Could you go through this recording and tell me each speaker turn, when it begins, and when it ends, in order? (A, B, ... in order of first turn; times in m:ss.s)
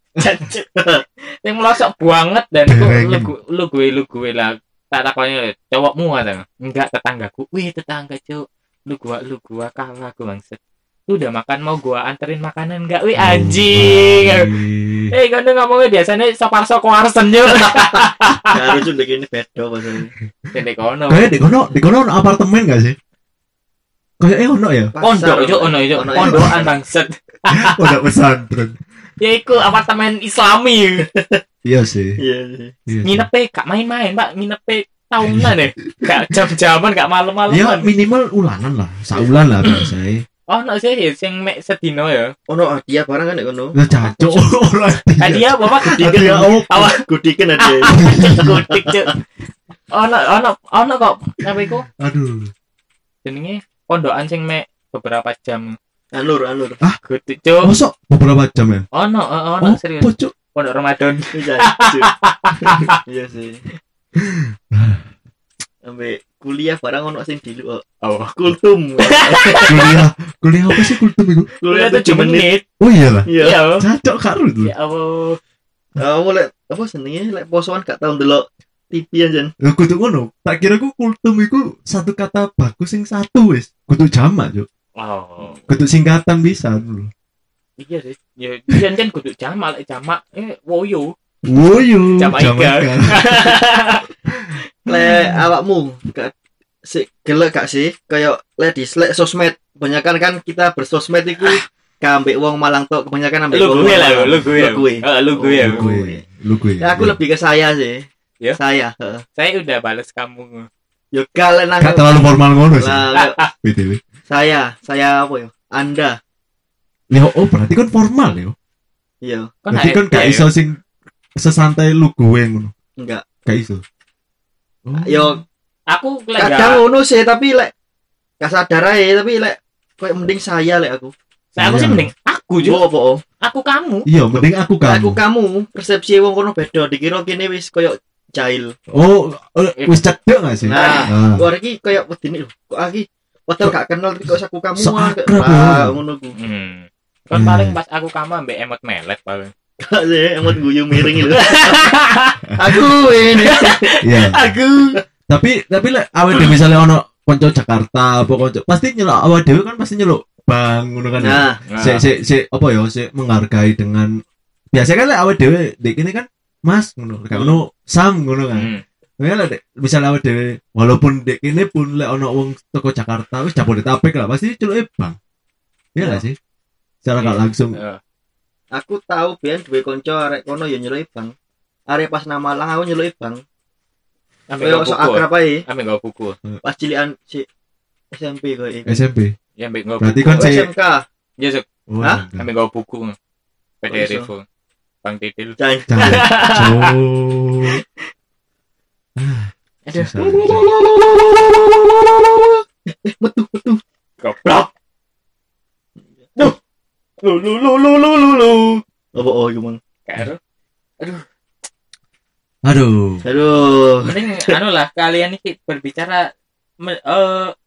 0:00.2-0:00.7 A
0:00.8-0:01.0 B
0:01.2-0:10.6 A
0:02.7-0:03.3 C
0:11.1-0:14.5 A
0:13.2-0:15.1 C
0:15.1-0:18.8 A
0:17.5-0:20.1 B
0:20.5-0:21.4 A
0:21.1-0:23.0 C
0:24.2-0:24.9 C
0:24.9-0:26.7 B
0:25.0-0:27.9 A
0:26.1-0:26.5 C
0:27.5-0:28.8 C
0:29.2-0:31.0 A
0:31.1-0:31.4 B
0:31.6-0:32.2 C
0:32.2-0:32.8 B
0:32.9-0:33.3 C
0:33.0-0:37.9 A
0:35.2-0:36.1 C
0:37.5-0:40.2 C
0:40.5-0:42.4 A
0:42.5-0:43.8 B
0:43.8-0:46.8 C
0:44.0-0:44.4 A
0:45.2-0:47.0 A
0:45.8-0:49.1 B
0:47.6-0:49.1 A
0:47.9-0:48.6 C
0:49.9-0:51.9 A
0:52.0-0:52.5 C
0:53.2-0:55.8 A
0:56.1-0:56.8 B
0:57.0-0:57.7 A
0:57.6-0:58.9 C
0:58.9-1:03.0 A
0:59.6-1:00.3 C
1:01.3-1:02.1 B
1:03.0-1:03.6 B
1:04.1-1:05.1 C
1:05.8-1:07.8 B
1:08.0-1:08.4 A
1:08.4-1:09.9 B
1:09.0-1:09.9 A
1:09.6-1:11.5 C
1:11.6-1:12.5 B
1:11.7-1:12.6 A
1:12.8-1:14.7 C
1:13.3-1:13.6 B
1:13.4-1:13.8 A
1:14.6-1:15.4 A
1:16.0-1:19.5 B
1:19.6-1:24.7 C
1:25.0-1:25.6 A
1:25.7-1:27.1 C
1:27.8-1:31.1 A
1:31.4-1:33.6 C
1:32.2-1:34.0 A
1:34.3-1:34.6 C
1:34.9-1:36.3 B
1:36.9-1:46.2 B
1:41.4-1:41.6 A
1:43.5-1:45.8 A
1:45.6-1:47.2 C
1:46.8-1:49.2 B
1:49.4-1:50.7 A
1:51.1-1:53.4 B
1:51.8-1:53.1 C
1:53.1-1:53.5 A
1:53.6-1:54.0 C
1:54.3-1:56.2 B
1:57.1-1:58.6 C
1:59.2-1:59.6 B
1:59.6-2:00.5 A
1:59.7-2:00.8 C
2:01.4-2:02.7 C
2:03.0-2:03.2 B
2:03.4-2:03.8 C
2:04.9-2:05.4 C
2:05.0-2:05.4 B
2:05.9-2:06.8 A
2:06.4-2:07.7 B
2:08.4-2:11.1 B
2:11.6-2:12.8 A
2:11.6-2:12.1 C
2:12.6-2:13.2 B
2:13.4-2:14.1 A
2:14.1-2:15.2 C
2:14.8-2:18.7 B
2:18.9-2:21.4 C
2:19.8-2:20.0 A
2:20.6-2:26.4 B
2:20.7-2:21.1 A
2:24.8-2:26.0 C
2:26.4-2:29.5 A
2:27.3-2:27.8 C
2:29.8-2:31.9 B
2:30.5-2:31.2 C
2:31.4-2:32.4 A
2:32.6-2:33.9 B
2:33.4-2:35.0 A
2:34.0-2:34.5 C
2:35.3-2:44.2 C
2:41.2-2:41.6 B
2:41.7-2:42.1 A
2:44.7-2:55.2 C
2:48.5-2:48.8 A
2:55.9-2:56.4 C
2:56.0-2:56.2 B
2:57.0-2:57.8 C
2:57.2-2:58.0 A
2:58.7-3:01.4 B
3:01.9-3:03.4 B
3:04.5-3:06.4 A
3:04.6-3:05.6 B
3:06.6-3:07.5 B
3:08.1-3:09.0 B
3:08.9-3:09.3 C
3:09.6-3:10.5 A
3:10.0-3:10.7 C
3:10.4-3:11.1 B
3:11.4-3:11.6 A
3:11.9-3:12.5 C
3:12.4-3:13.2 A
3:13.8-3:14.4 A
3:13.9-3:14.3 B
3:15.0-3:16.9 A
3:15.6-3:16.3 B
3:15.9-3:17.8 C
3:19.2-3:20.7 C
3:19.9-3:20.2 A
3:20.2-3:23.8 B
3:24.2-3:24.7 A
3:27.2-3:29.8 B
3:30.1-3:30.4 A
3:32.6-3:33.2 C
3:33.2-3:34.5 B
3:34.0-3:36.3 A
3:36.8-3:37.5 A